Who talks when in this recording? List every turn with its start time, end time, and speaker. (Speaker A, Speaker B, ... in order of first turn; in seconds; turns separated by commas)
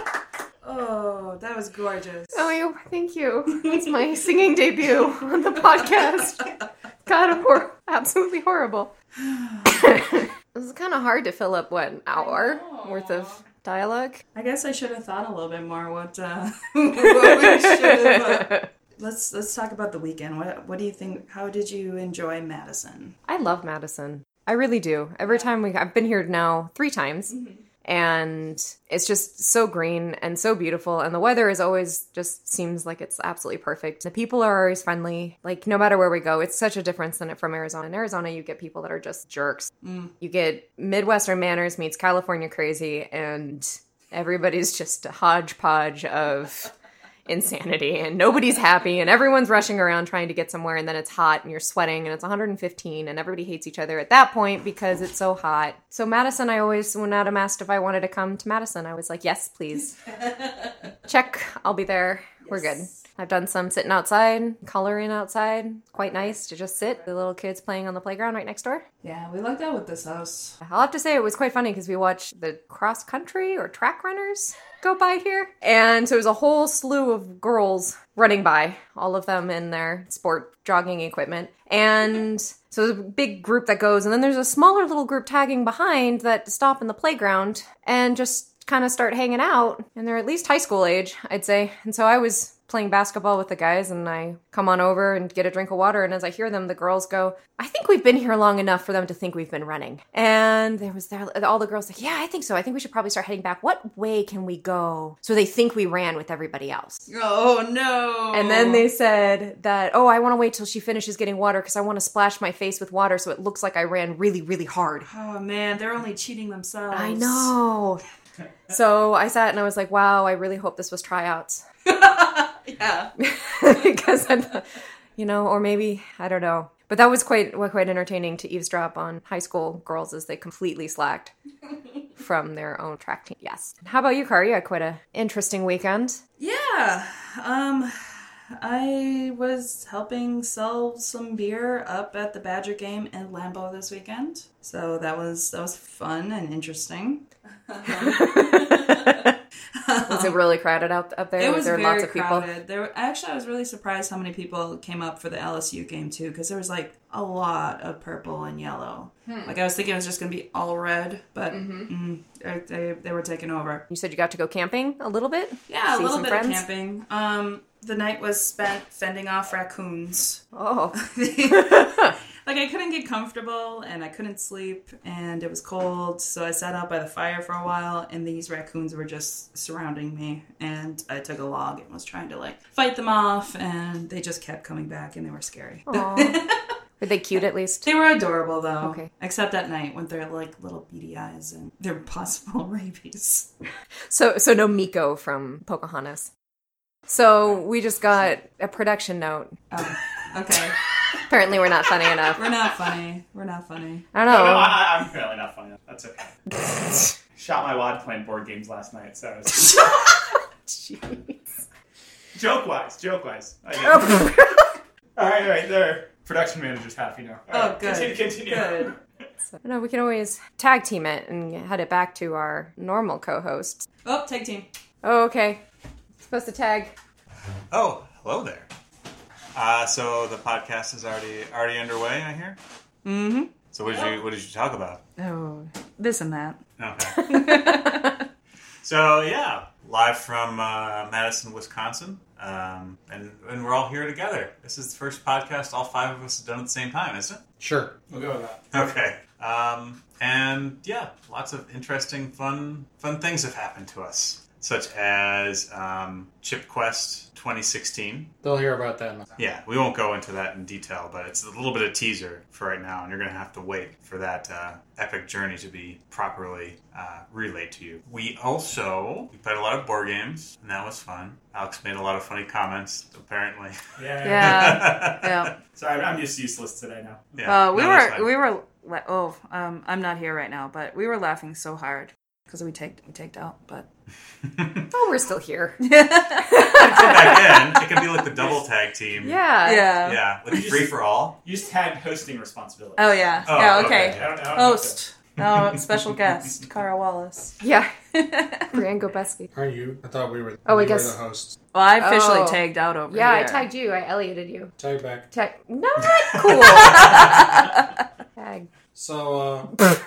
Speaker A: 0.6-2.5, Speaker B: 2.3-6.5, Speaker B: 7.0-8.9, Speaker B: 9.7-14.2, Speaker A: 12.1-13.4, Speaker A: 14.3-23.1, Speaker B: 23.2-46.7, Speaker A: 27.3-27.6, Speaker A: 39.8-40.1, Speaker B: 47.3-60.0, Speaker B: 61.0-68.8, Speaker A: 62.5-62.8, Speaker A: 69.0-70.5, Speaker B: 70.6-107.1, Speaker A: 107.1-108.9, Speaker B: 108.3-115.1, Speaker A: 115.1-117.5, Speaker B: 116.9-118.0, Speaker B: 118.7-121.6, Speaker A: 121.8-123.1, Speaker B: 123.2-124.7, Speaker B: 125.2-131.3, Speaker B: 132.2-136.2, Speaker A: 136.4-138.0, Speaker A: 138.6-150.4, Speaker B: 147.9-149.3, Speaker B: 150.1-152.5, Speaker A: 151.4-163.8, Speaker B: 159.2-159.5, Speaker B: 161.5-161.9, Speaker B: 163.9-166.6, Speaker A: 165.7-186.6, Speaker B: 170.5-172.1, Speaker B: 185.9-186.4, Speaker B: 187.0-187.9, Speaker A: 187.8-193.5, Speaker B: 188.8-189.1, Speaker B: 194.1-196.3, Speaker B: 197.1-199.6, Speaker A: 199.7-200.8, Speaker B: 201.3-202.4, Speaker A: 202.3-204.1, Speaker B: 204.1-204.8, Speaker C: 204.2-206.3, Speaker B: 206.7-207.1, Speaker C: 207.3-209.9, Speaker B: 209.7-210.0, Speaker B: 210.7-211.4, Speaker C: 212.3-214.3, Speaker B: 213.9-214.6, Speaker C: 215.2-219.0, Speaker A: 217.5-218.9, Speaker B: 219.6-223.9, Speaker A: 224.0-224.7, Speaker B: 225.0-225.6, Speaker B: 226.2-226.9, Speaker D: 227.7-228.7, Speaker D: 229.5-232.6, Speaker A: 233.0-234.2, Speaker D: 233.7-235.0, Speaker A: 235.2-236.6, Speaker D: 236.8-237.6, Speaker A: 237.2-238.2, Speaker B: 237.2-238.0, Speaker D: 238.8-247.4, Speaker E: 247.6-247.9, Speaker C: 248.1-248.8, Speaker D: 248.7-258.3, Speaker E: 258.4-259.4, Speaker D: 259.4-275.5, Speaker C: 274.0-275.0, Speaker A: 274.2-275.6, Speaker C: 275.7-277.4, Speaker D: 277.3-278.3, Speaker A: 277.4-283.9, Speaker B: 284.9-287.8, Speaker A: 285.8-286.7, Speaker D: 286.6-289.4, Speaker B: 289.2-289.9, Speaker A: 289.6-290.2, Speaker D: 290.0-291.4, Speaker C: 290.5-294.9, Speaker A: 293.0-297.6, Speaker D: 293.5-294.4, Speaker B: 297.6-297.9, Speaker A: 298.1-298.8, Speaker B: 298.7-299.5, Speaker E: 299.5-301.6, Speaker B: 300.6-301.2, Speaker A: 301.7-303.7, Speaker B: 302.0-304.7, Speaker E: 304.8-305.3, Speaker B: 305.3-307.6, Speaker A: 306.8-307.4, Speaker B: 308.4-308.7, Speaker E: 308.9-309.8